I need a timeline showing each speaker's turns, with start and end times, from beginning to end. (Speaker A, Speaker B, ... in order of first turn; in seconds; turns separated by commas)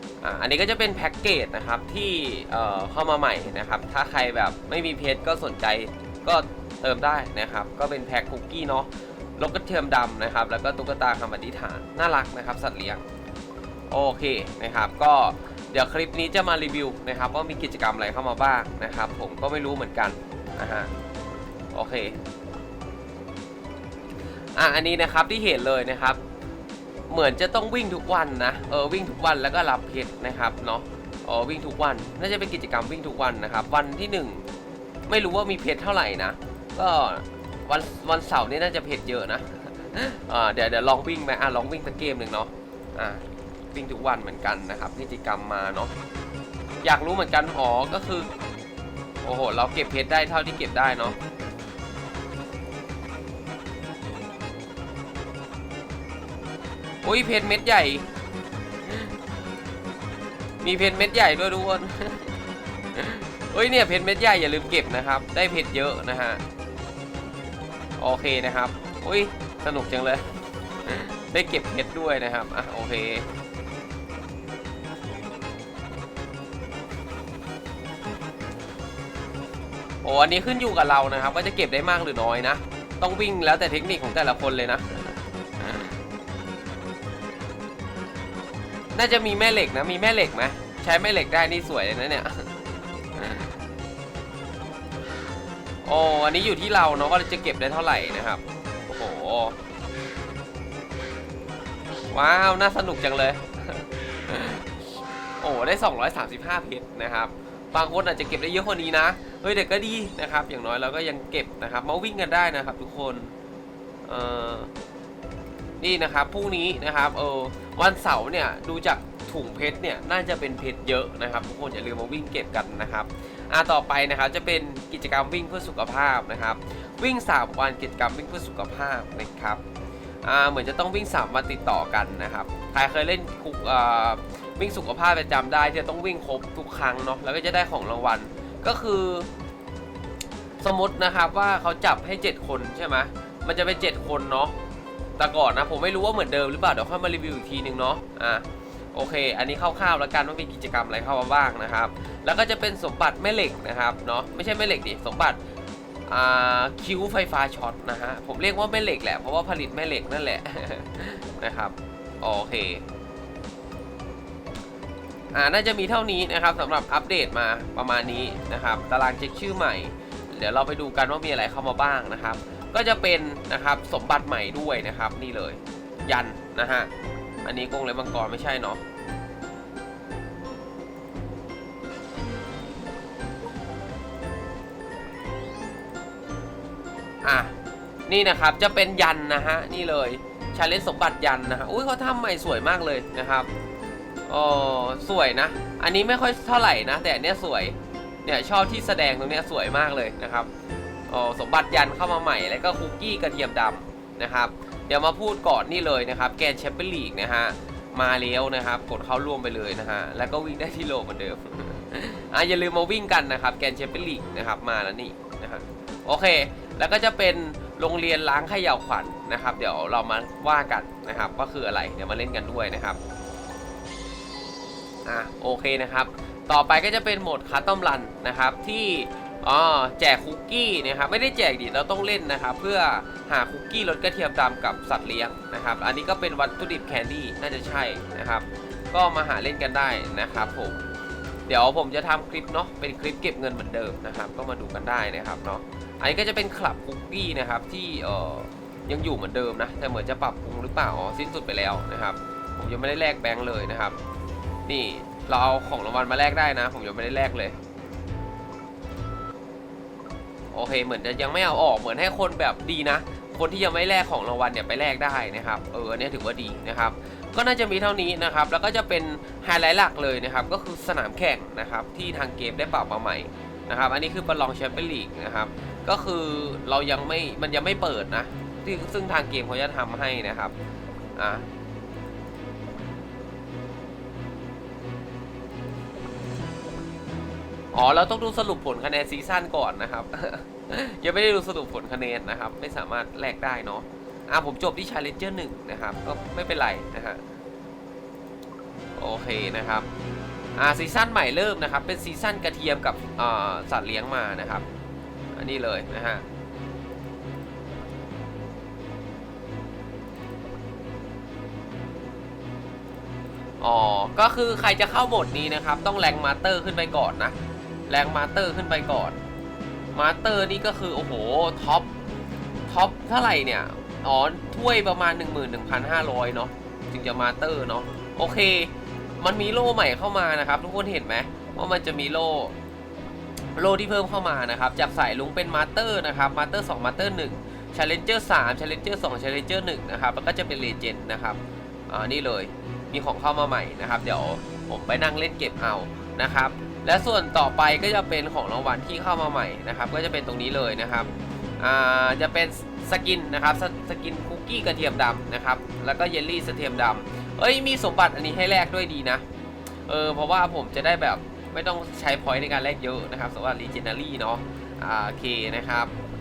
Speaker A: 0.2-13.0, Speaker A: 13.9-20.9, Speaker A: 21.7-22.2, Speaker A: 24.6-26.2, Speaker A: 27.1-34.5, Speaker A: 35.1-45.9, Speaker A: 46.8-48.3, Speaker A: 49.2-51.2, Speaker A: 57.0-58.1, Speaker A: 58.9-59.1, Speaker A: 60.6-62.4, Speaker A: 62.9-66.4, Speaker A: 68.0-70.3, Speaker A: 70.8-73.3, Speaker A: 80.0-85.9, Speaker A: 88.9-92.5, Speaker A: 93.2-93.5, Speaker A: 95.8-99.6, Speaker A: 102.1-104.7, Speaker A: 105.4-113.3, Speaker A: 114.1-114.7, Speaker A: 115.8-129.6, Speaker A: 130.2-139.3, Speaker A: 140.6-144.6, Speaker A: 145.2-155.4, Speaker A: 156.1-162.8, Speaker A: 165.3-176.9, Speaker A: 177.4-178.8, Speaker A: 187.2-187.5, Speaker A: 188.1-193.5, Speaker A: 194.3-200.5, Speaker A: 201.1-223.0, Speaker A: 225.1-240.8, Speaker A: 241.5-254.0, Speaker A: 254.7-257.6, Speaker A: 260.5-280.6, Speaker A: 281.2-281.5, Speaker A: 287.7-297.2, Speaker A: 299.0-299.9, Speaker A: 300.6-304.6, Speaker A: 305.4-306.2, Speaker A: 313.6-317.4, Speaker A: 317.9-319.2, Speaker A: 319.9-321.9, Speaker A: 322.7-332.6, Speaker A: 333.6-359.2, Speaker A: 359.9-365.9